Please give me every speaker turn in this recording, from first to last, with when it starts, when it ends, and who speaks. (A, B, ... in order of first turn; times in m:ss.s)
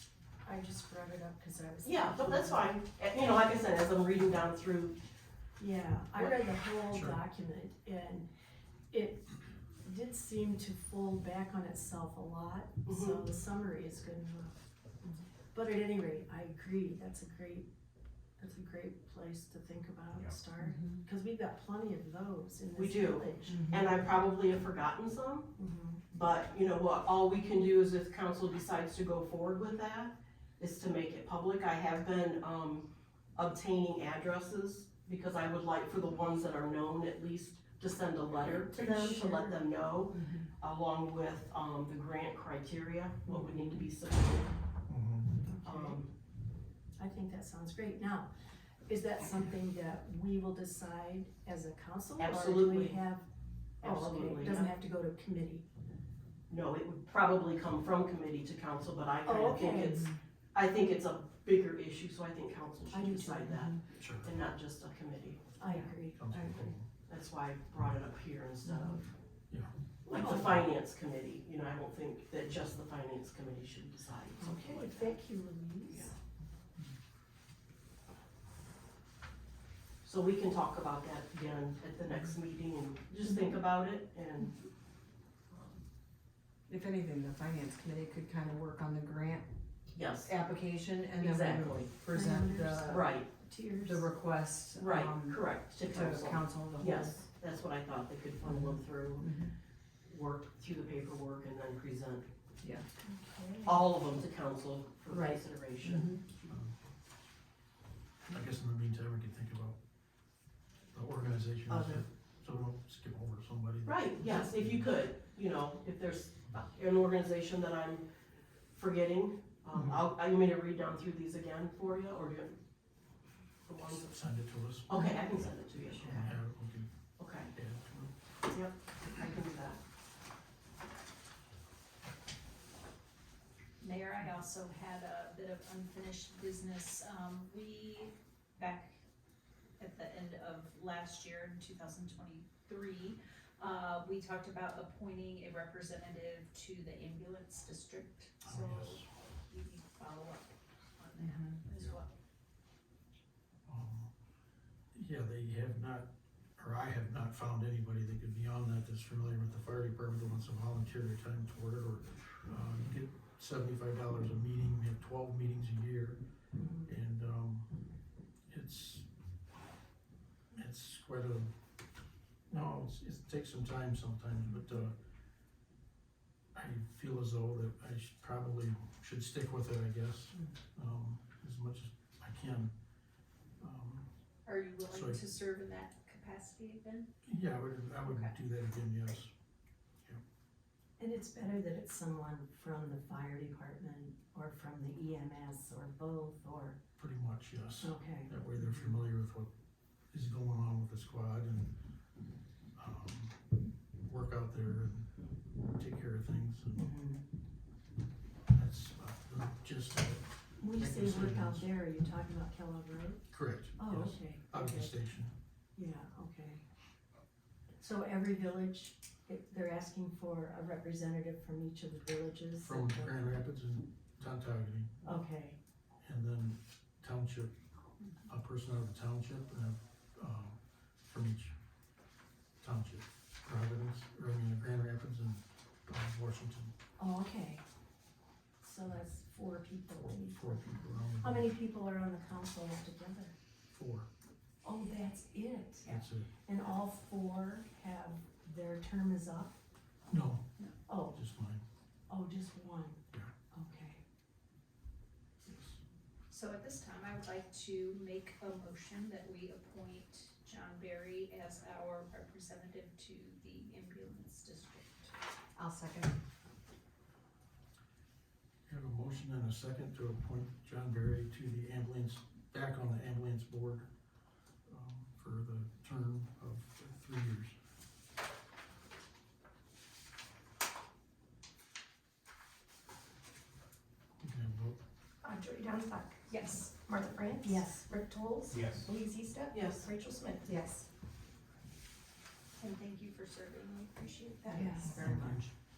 0:00.4-0:02.7 A
0:01.8-0:05.0 B
0:05.6-0:08.3 A
0:06.9-0:07.2 C
0:08.9-0:14.6 A
0:12.8-0:13.2 B
0:15.5-0:17.7 A
0:18.4-0:23.6 A
0:20.6-0:21.0 D
0:22.8-0:25.5 B
0:25.6-0:26.0 A
0:26.1-0:44.5 B
0:38.7-0:39.6 D
0:40.1-0:40.5 D
0:44.9-0:45.3 C
0:45.5-0:46.0 A
0:45.6-0:46.1 B
0:47.0-0:48.3 A
0:48.9-0:53.2 A
0:52.2-0:53.0 B
0:53.8-0:54.7 B
0:53.8-0:55.6 A
0:56.5-1:05.4 B
0:59.2-1:00.0 A
1:02.9-1:03.6 A
1:04.0-1:04.3 C
1:05.6-1:06.2 A
1:05.7-1:06.6 D
1:06.1-1:06.9 C
1:07.1-1:09.1 B
1:08.7-1:09.0 D
1:10.0-1:15.2 B
1:10.1-1:10.5 A
1:14.4-1:16.1 A
1:15.9-1:16.1 B
1:20.0-1:24.6 B
1:26.7-1:29.5 D
1:29.9-1:30.4 B
1:30.1-1:37.2 D
1:31.2-1:31.9 B
1:32.1-1:34.1 A
1:32.9-1:33.3 B
1:34.8-1:39.4 B
1:38.4-1:39.5 D
1:40.0-1:42.3 B
1:42.6-1:42.9 D
1:43.0-1:43.9 A
1:43.6-1:46.5 B
1:45.1-1:46.2 D
1:46.5-1:46.7 C
1:48.3-1:49.8 C
1:50.9-1:54.9 C
1:51.7-1:52.0 D
1:53.8-1:58.0 B
1:58.7-2:02.6 B
2:03.7-2:04.1 B
2:03.8-2:06.9 C
2:04.9-2:06.4 B
2:07.2-2:07.5 B
2:07.4-2:08.1 C
2:08.5-2:09.8 B
2:13.8-2:19.0 E
2:19.8-2:32.1 E
2:28.4-2:29.0 C
2:31.2-2:31.6 D
2:33.7-2:34.1 C
2:34.9-2:46.2 C
2:46.6-2:46.9 A
2:46.8-2:47.7 C
2:48.5-2:49.0 C
2:50.5-2:51.5 C
2:52.5-2:54.9 C
2:56.5-3:02.7 C
3:03.6-3:04.1 C
3:04.4-3:07.1 E
3:04.9-3:05.2 C
3:07.2-3:09.3 C
3:08.0-3:08.3 E
3:11.0-3:16.8 A
3:17.0-3:19.5 C
3:17.8-3:18.9 A
3:20.1-3:21.7 C
3:22.8-3:23.4 C
3:24.0-3:25.1 C
3:25.7-3:26.9 C
3:26.8-3:27.2 A
3:28.5-3:31.6 C
3:30.6-3:33.2 A
3:33.3-3:35.3 C
3:33.8-3:34.9 A
3:35.7-3:36.6 A
3:37.8-3:43.3 A
3:42.6-3:45.2 C
3:45.0-3:45.6 A
3:46.0-3:47.5 C
3:48.3-3:51.5 C
3:52.6-3:56.7 C
3:57.0-3:57.6 A
3:58.6-4:03.3 A
4:00.0-4:01.5 C
4:03.7-4:04.1 C
4:04.6-4:05.9 A
4:05.8-4:06.3 C
4:06.4-4:09.6 A
4:10.1-4:10.4 C
4:10.9-4:11.2 A
4:11.1-4:11.6 C
4:12.1-4:13.0 A
4:13.5-4:14.0 A
4:15.4-4:15.8 C
4:16.3-4:25.1 E
4:25.6-4:26.1 D
4:28.7-4:33.9 C
4:34.7-4:37.6 C
4:44.2-4:44.8 C
4:45.2-4:50.8 F
4:46.3-4:46.8 E
4:47.4-4:47.9 A
4:49.5-4:49.9 B
4:52.6-4:54.9 E
4:54.5-4:55.1 A
4:54.5-4:55.4 D
4:54.9-4:55.5 C